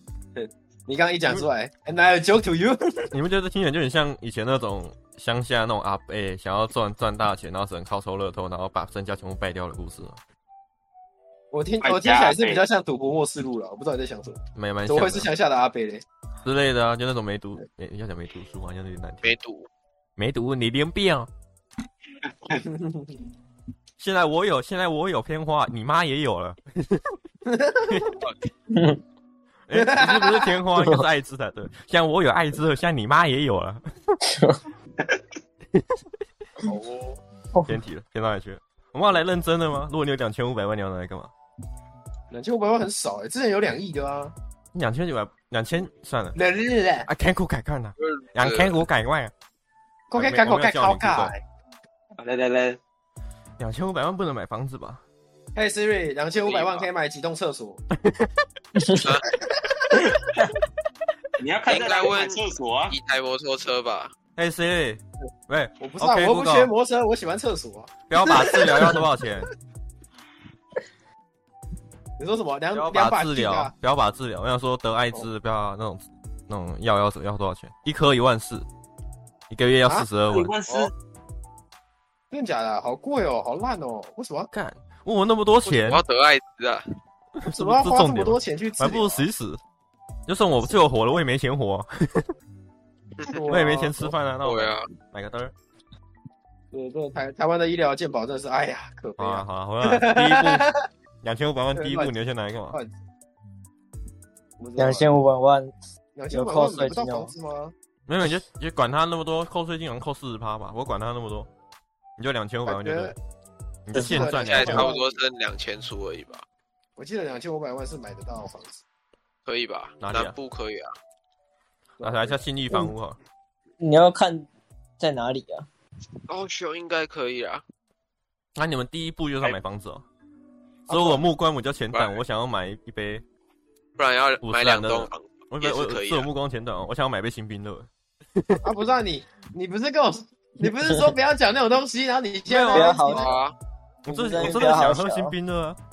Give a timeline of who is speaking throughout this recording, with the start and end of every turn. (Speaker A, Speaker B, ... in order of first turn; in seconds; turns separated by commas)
Speaker A: 0.3-3.1, Speaker B: 3.1-10.2, Speaker A: 11.5-16.0, Speaker C: 11.8-12.7, Speaker B: 14.6-15.3, Speaker B: 16.4-19.3, Speaker D: 19.2-19.7, Speaker B: 20.2-21.3, Speaker C: 22.2-22.6, Speaker A: 22.7-23.2, Speaker B: 24.0-27.2, Speaker A: 27.5-28.0, Speaker B: 27.9-28.2, Speaker E: 28.7-29.0, Speaker B: 29.7-33.8, Speaker A: 29.7-30.5, Speaker E: 30.8-31.0, Speaker E: 34.4-34.6, Speaker D: 36.7-37.2, Speaker E: 37.5-37.8, Speaker B: 37.7-41.3, Speaker A: 42.3-44.3, Speaker B: 44.7-46.4, Speaker A: 46.4-47.1, Speaker B: 47.1-49.3, Speaker D: 48.0-48.8, Speaker A: 50.1-51.4, Speaker B: 50.1-51.3, Speaker C: 52.2-52.8, Speaker B: 53.6-55.0, Speaker A: 55.5-57.8, Speaker D: 56.4-56.9, Speaker B: 57.9-58.3, Speaker E: 58.8-59.1, Speaker D: 59.0-59.3, Speaker A: 59.9-60.2, Speaker C: 61.4-63.0, Speaker D: 61.7-64.1, Speaker B: 64.4-66.7, Speaker A: 65.8-69.0, Speaker B: 68.1-69.5, Speaker A: 72.2-73.7, Speaker B: 72.7-78.7, Speaker B: 79.5-80.5, Speaker C: 80.3-80.9, Speaker A: 80.7-80.9, Speaker A: 82.3-84.5, Speaker B: 84.5-86.0, Speaker D: 85.7-86.8, Speaker B: 87.4-89.6, Speaker A: 87.5-89.2, Speaker B: 90.3-92.3, Speaker A: 93.3-94.2, Speaker B: 93.5-95.5, Speaker D: 94.4-94.9, Speaker A: 96.7-100.8, Speaker B: 99.2-100.7, Speaker B: 101.2-102.8, Speaker A: 101.7-102.1, Speaker A: 104.6-105.1, Speaker E: 104.8-105.8, Speaker A: 106.2-107.7, Speaker E: 106.3-107.3, Speaker B: 108.1-111.5, Speaker B: 112.2-113.2, Speaker A: 112.7-113.2, Speaker B: 113.9-114.9, Speaker E: 113.9-114.3, Speaker A: 114.0-115.2, Speaker D: 114.2-116.4, Speaker A: 117.0-118.8, Speaker D: 119.5-120.9, Speaker B: 120.0-120.4, Speaker A: 122.0-122.5, Speaker B: 122.0-123.2, Speaker E: 123.8-124.5, Speaker E: 125.0-125.7, Speaker D: 126.3-127.6, Speaker B: 128.6-130.1, Speaker A: 130.9-131.2, Speaker B: 130.9-133.2, Speaker D: 134.0-136.3, Speaker B: 134.4-138.6, Speaker A: 138.6-143.4, Speaker B: 142.5-143.0, Speaker E: 142.7-143.4, Speaker D: 143.1-143.5, Speaker B: 144.1-145.8, Speaker E: 144.1-145.3